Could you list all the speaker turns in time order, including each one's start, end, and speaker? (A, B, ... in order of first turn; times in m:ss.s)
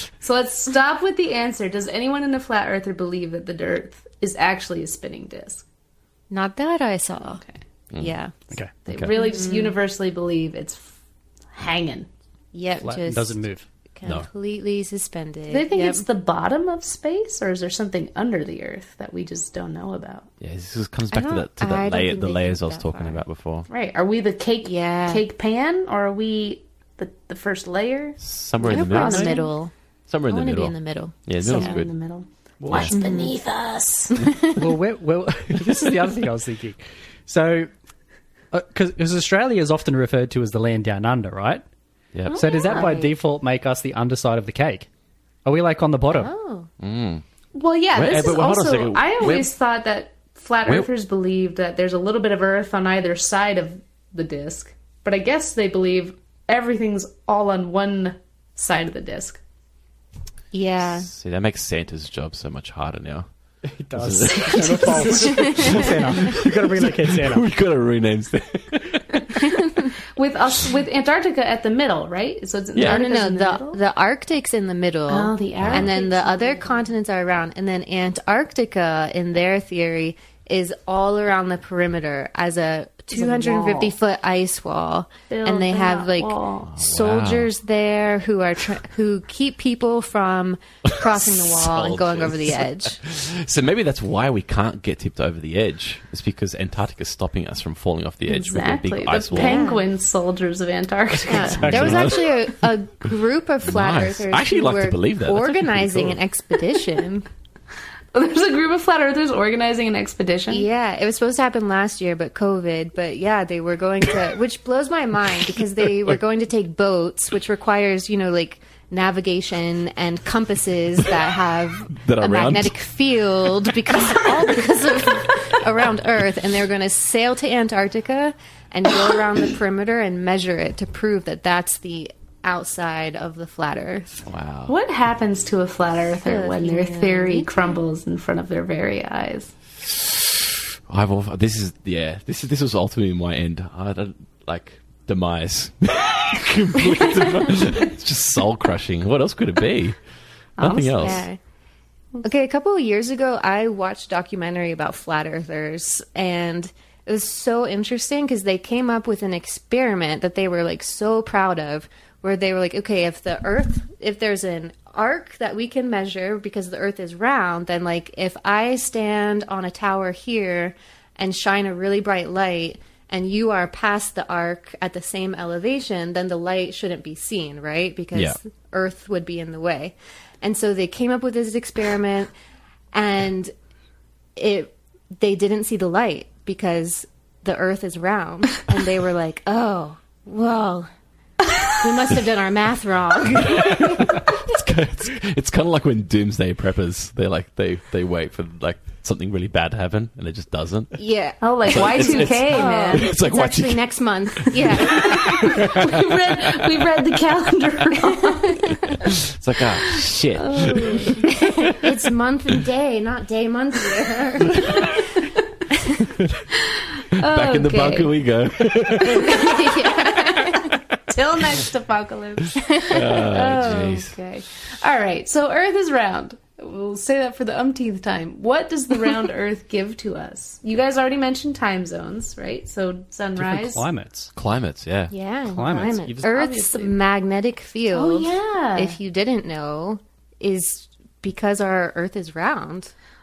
0:00.2-0:05.6 A
0:06.3-0:07.4 B
0:08.0-0:08.3 B
0:08.9-0:11.0 A
0:09.1-0:09.8 B
0:11.5-0:12.1 A
0:12.5-0:13.4 B
0:12.8-0:13.6 C
0:14.0-0:16.0 B
0:15.5-0:20.3 A
0:20.4-0:23.7 D
0:21.1-0:23.2 B
0:23.7-0:29.5 A
0:24.6-0:25.2 B
0:28.2-0:29.4 D
0:28.6-0:29.7 B
0:30.1-0:30.7 D
0:30.3-0:31.8 B
0:31.2-0:31.9 D
0:31.4-0:34.4 A
0:32.6-0:33.0 C
0:32.7-0:33.0 D
0:32.9-0:33.4 B
0:34.1-0:34.6 B
0:34.6-0:37.7 C
0:38.5-0:41.6 C
0:42.1-0:42.4 D
0:42.3-0:42.9 A
0:42.3-0:44.9 C
0:42.6-0:43.2 B
0:45.4-0:46.3 C
0:46.1-0:46.7 B
0:46.8-0:47.2 D
0:47.5-0:59.4 A
0:48.0-0:49.5 D
1:00.5-1:01.1 B
1:01.0-1:03.3 D
1:03.6-1:07.5 C
1:04.0-1:09.6 D
1:05.2-1:05.8 B
1:09.4-1:09.9 B
1:10.2-1:13.8 A
1:12.8-1:13.0 D
1:12.8-1:33.0 B
1:15.1-1:16.9 A
1:15.6-1:15.9 D
1:23.1-1:24.0 A
1:25.3-1:26.7 A
1:26.7-1:27.5 D
1:30.9-1:39.7 D
1:38.3-1:42.2 A
1:39.3-1:39.9 B
1:41.3-1:47.3 B
1:41.5-1:42.3 D
1:43.6-1:46.2 D
1:48.1-1:50.7 A
1:50.5-2:14.2 B
2:02.0-2:02.7 D
2:14.3-2:14.7 D
2:14.7-2:19.5 A
2:16.2-2:17.8 B
2:20.9-2:30.0 D
2:30.6-2:31.3 A
2:30.6-2:31.3 D
2:31.0-2:31.4 B
2:32.2-3:02.3 B
3:02.9-3:03.5 B
3:04.4-3:10.9 B
3:11.7-3:14.3 B
3:13.5-3:21.0 D
3:21.0-3:25.9 B
3:21.4-3:23.1 A
3:21.6-3:23.8 D
3:24.4-3:26.7 D
3:24.9-3:28.8 A
3:28.2-3:29.0 B
3:29.1-3:31.7 D
3:30.3-3:31.7 A
3:31.3-3:35.1 B
3:36.6-3:38.1 A
3:37.2-3:39.8 D
3:39.0-3:53.8 A
3:39.2-3:40.7 B
3:42.7-3:43.2 B
3:42.9-3:44.1 D
3:53.4-3:54.3 C
3:54.4-3:55.1 D
3:55.1-4:02.9 B
3:55.5-3:56.3 C
3:56.3-3:57.0 A
3:57.9-3:59.0 A